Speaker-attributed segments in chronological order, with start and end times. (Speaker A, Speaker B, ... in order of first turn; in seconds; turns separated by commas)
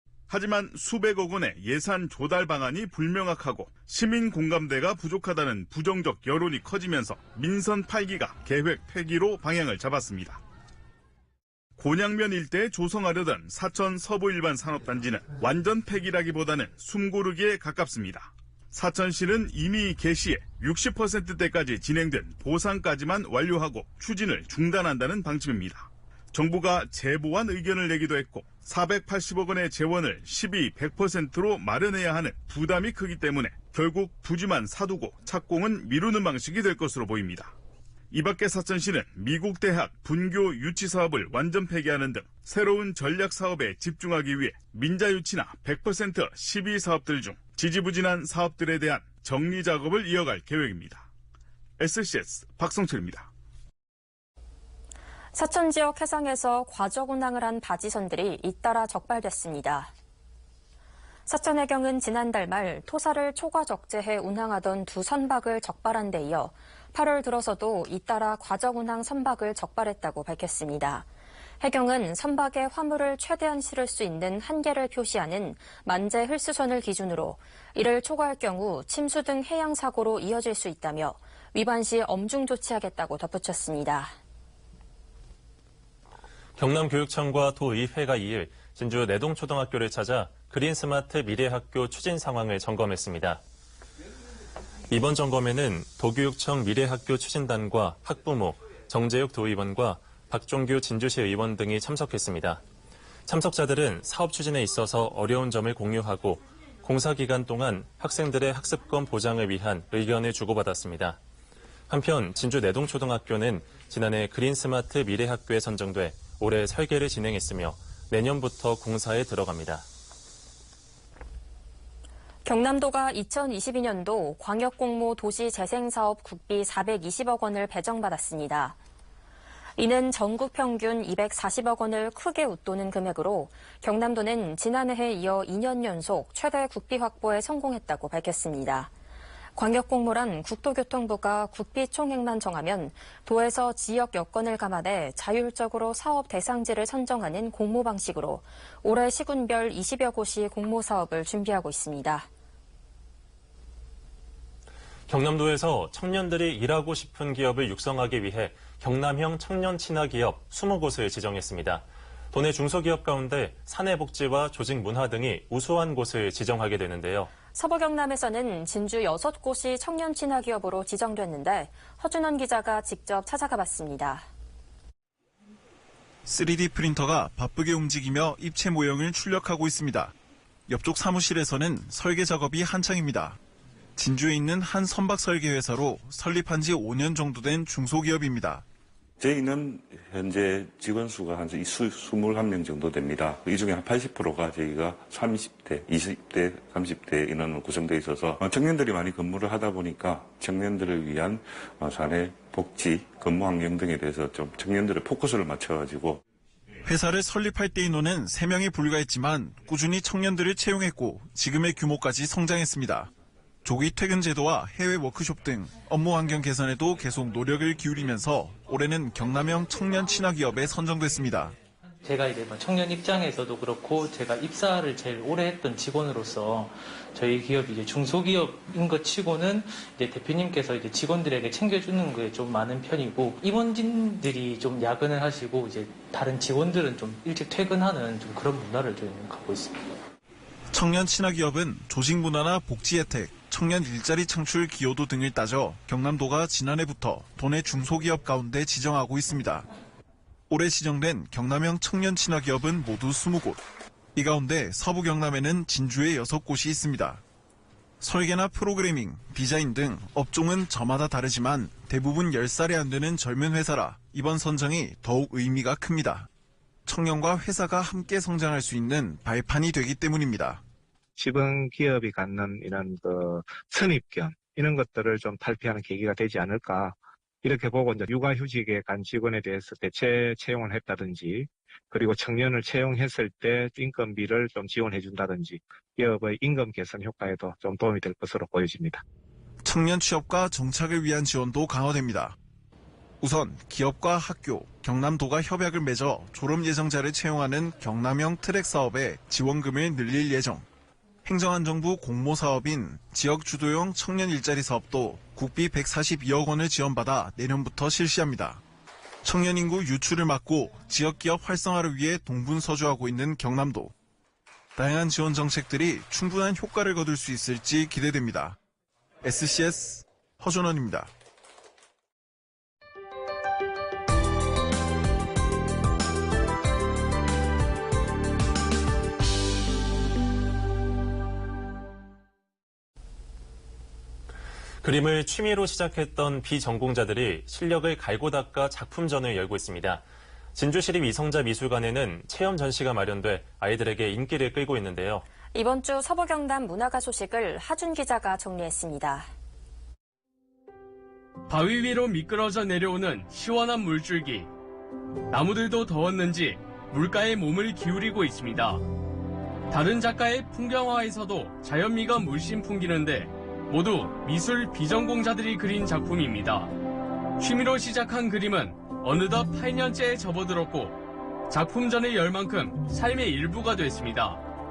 Speaker A: 0.3-10.4, Speaker A: 11.8-37.5, Speaker A: 38.1-51.1, Speaker A: 51.8-53.3, Speaker B: 55.3-59.9, Speaker B: 61.3-71.0, Speaker B: 71.6-84.1, Speaker C: 86.6-93.4, Speaker C: 94.9-102.6, Speaker C: 103.2-111.2, Speaker C: 111.9-119.8, Speaker B: 122.4-128.8, Speaker B: 129.8-138.9, Speaker B: 139.6-152.3, Speaker C: 155.1-167.3, Speaker B: 167.5-174.2, Speaker D: 176.2-180.1, Speaker D: 180.7-183.4, Speaker D: 183.9-188.6, Speaker E: 189.2-206.2, Speaker D: 206.8-213.1, Speaker D: 213.6-221.5, Speaker F: 222.0-240.0, Speaker D: 240.7-249.7, Speaker D: 250.5-253.6, Speaker D: 254.1-257.2, Speaker D: 258.0-266.3, Speaker D: 266.9-270.6, Speaker G: 271.1-289.0, Speaker D: 289.6-292.3, Speaker D: 293.2-300.6, Speaker D: 301.2-308.6, Speaker D: 309.2-313.9, Speaker D: 314.8-318.6, Speaker D: 319.2-321.1, Speaker C: 334.8-340.0, Speaker C: 340.5-345.2, Speaker B: 345.5-349.3, Speaker H: 351.5-354.5, Speaker H: 355.3-358.8, Speaker H: 359.7-366.7, Speaker H: 367.4-371.0, Speaker H: 371.5-374.4